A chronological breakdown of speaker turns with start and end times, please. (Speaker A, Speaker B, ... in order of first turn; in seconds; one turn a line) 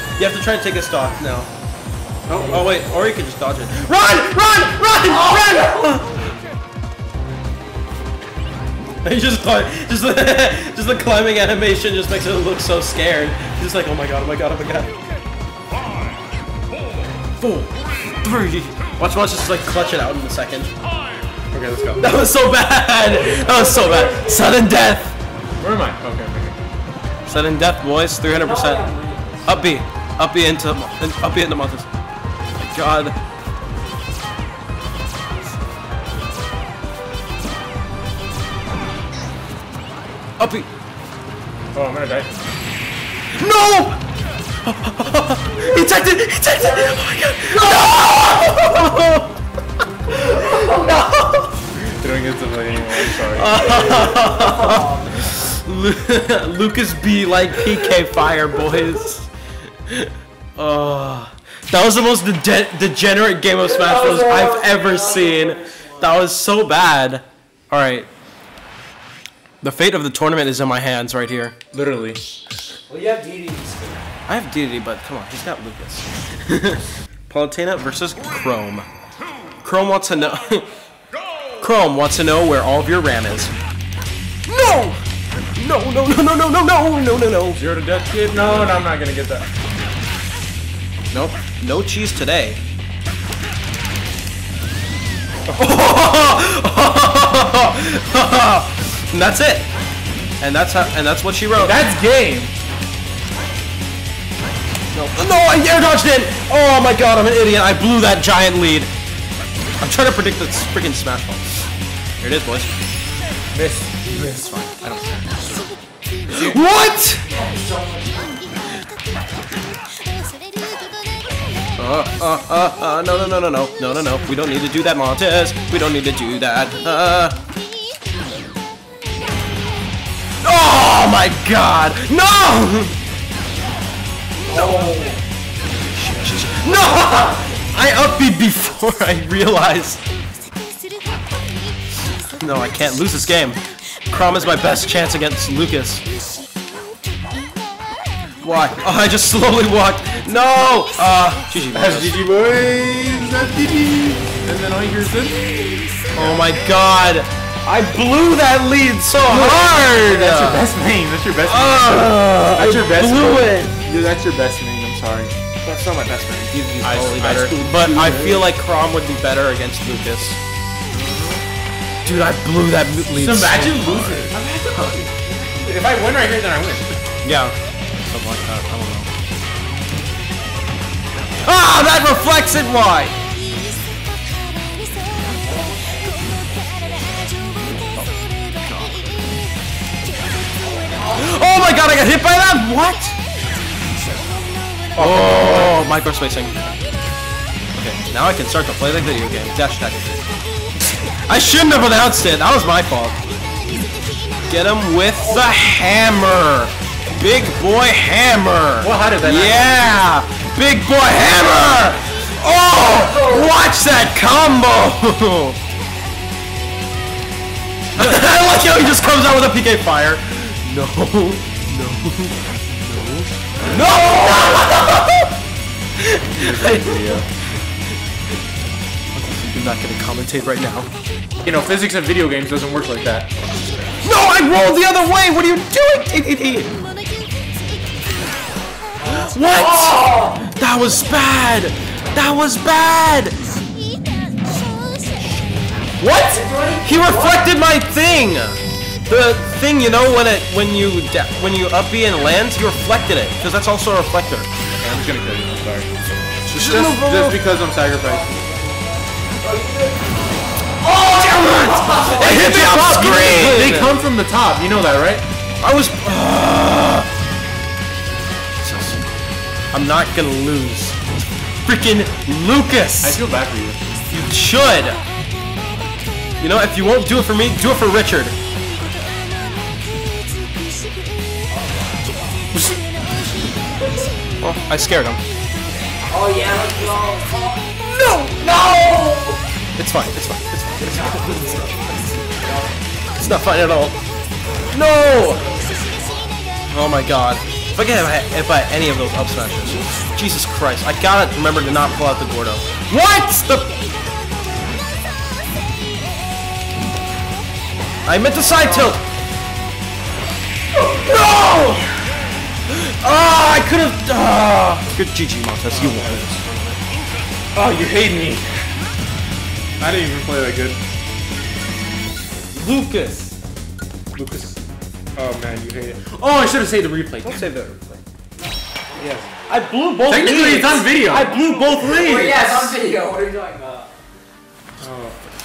Speaker A: 0.2-1.5
Speaker B: 2.3-2.8
Speaker A: 2.3-6.2
Speaker C: 5.3-5.6
Speaker A: 9.0-14.9
Speaker A: 17.4-20.8
Speaker B: 21.5-22.1
Speaker A: 22.0-25.1
Speaker C: 23.0-24.6
Speaker B: 25.6-26.6
Speaker A: 27.2-28.8
Speaker C: 28.3-29.6
Speaker A: 29.4-31.9
Speaker A: 32.6-33.2
Speaker A: 40.4-40.7
Speaker B: 41.7-42.5
Speaker A: 43.4-44.0
Speaker A: 44.6-49.4
Speaker C: 46.6-48.6
Speaker A: 50.1-51.5
Speaker C: 50.2-51.0
Speaker B: 51.9-53.5
Speaker A: 53.1-59.3
Speaker C: 53.5-55.3
Speaker A: 59.9-68.1
Speaker C: 63.6-66.2
Speaker A: 69.6-71.5
Speaker B: 71.7-72.2
Speaker C: 72.9-74.1
Speaker A: 74.3-78.9
Speaker A: 79.6-80.7
Speaker A: 81.6-83.5
Speaker A: 84.5-85.0
Speaker A: 85.5-87.6
Speaker B: 87.5-89.5
Speaker A: 91.1-92.6
Speaker A: 95.5-99.7
Speaker A: 100.4-101.8
Speaker B: 101.6-102.5
Speaker A: 104.9-108.9
Speaker A: 109.8-111.5
Speaker A: 112.2-112.7
Speaker B: 113.5-115.7
Speaker B: 116.3-116.6
Speaker A: 116.3-117.2
Speaker C: 117.2-118.5
Speaker A: 121.8-127.4
Speaker A: 130.4-133.0
Speaker A: 134.4-134.9
Speaker C: 134.5-135.2
Speaker A: 135.9-140.0
Speaker A: 142.3-146.0
Speaker A: 148.4-152.2
Speaker B: 151.7-156.4
Speaker A: 156.1-160.7
Speaker B: 159.2-165.3
Speaker A: 161.4-163.7
Speaker A: 165.6-170.4
Speaker B: 166.8-168.4
Speaker B: 170.9-171.4
Speaker A: 172.0-175.1
Speaker B: 173.1-174.4
Speaker B: 175.6-176.9
Speaker A: 177.2-179.1
Speaker A: 181.4-183.2
Speaker C: 185.4-186.7
Speaker A: 187.6-189.1
Speaker C: 190.6-191.4
Speaker A: 191.1-193.2
Speaker B: 194.9-195.9
Speaker A: 194.9-196.6
Speaker A: 197.7-200.2
Speaker A: 201.3-203.2
Speaker A: 204.5-215.6
Speaker C: 205.2-205.5
Speaker B: 208.8-209.7
Speaker C: 212.9-213.5
Speaker A: 217.9-225.4
Speaker A: 225.9-227.2
Speaker B: 226.3-227.3
Speaker A: 229.1-230.9
Speaker B: 231.4-233.3
Speaker A: 234.0-236.7
Speaker C: 239.0-240.4
Speaker A: 239.1-243.3
Speaker B: 246.0-246.4
Speaker C: 246.3-247.5
Speaker A: 246.8-254.5
Speaker B: 254.8-258.2
Speaker A: 256.5-257.4
Speaker C: 257.9-262.4
Speaker A: 261.1-264.0
Speaker B: 262.2-265.2
Speaker A: 265.6-267.1
Speaker A: 268.6-269.1
Speaker A: 269.7-271.0
Speaker A: 271.6-273.2
Speaker B: 273.0-273.8
Speaker A: 274.1-275.0
Speaker A: 276.4-278.4
Speaker C: 281.5-282.4
Speaker A: 284.4-285.2
Speaker C: 286.1-287.8
Speaker A: 287.9-289.1
Speaker C: 288.4-289.4
Speaker A: 289.8-291.7
Speaker C: 290.8-292.8
Speaker A: 293.1-294.0
Speaker A: 294.7-295.4
Speaker C: 295.3-296.3
Speaker A: 296.7-303.8
Speaker A: 308.0-309.0
Speaker A: 310.7-312.0
Speaker A: 312.7-316.8
Speaker B: 315.7-316.2
Speaker B: 317.5-318.5
Speaker B: 319.8-320.8
Speaker A: 322.5-323.3
Speaker B: 324.1-324.6
Speaker B: 325.1-327.5
Speaker A: 327.2-328.0
Speaker C: 328.4-329.7
Speaker B: 329.0-329.2
Speaker A: 329.4-332.8
Speaker B: 330.0-331.4
Speaker C: 331.3-333.9
Speaker B: 334.8-335.2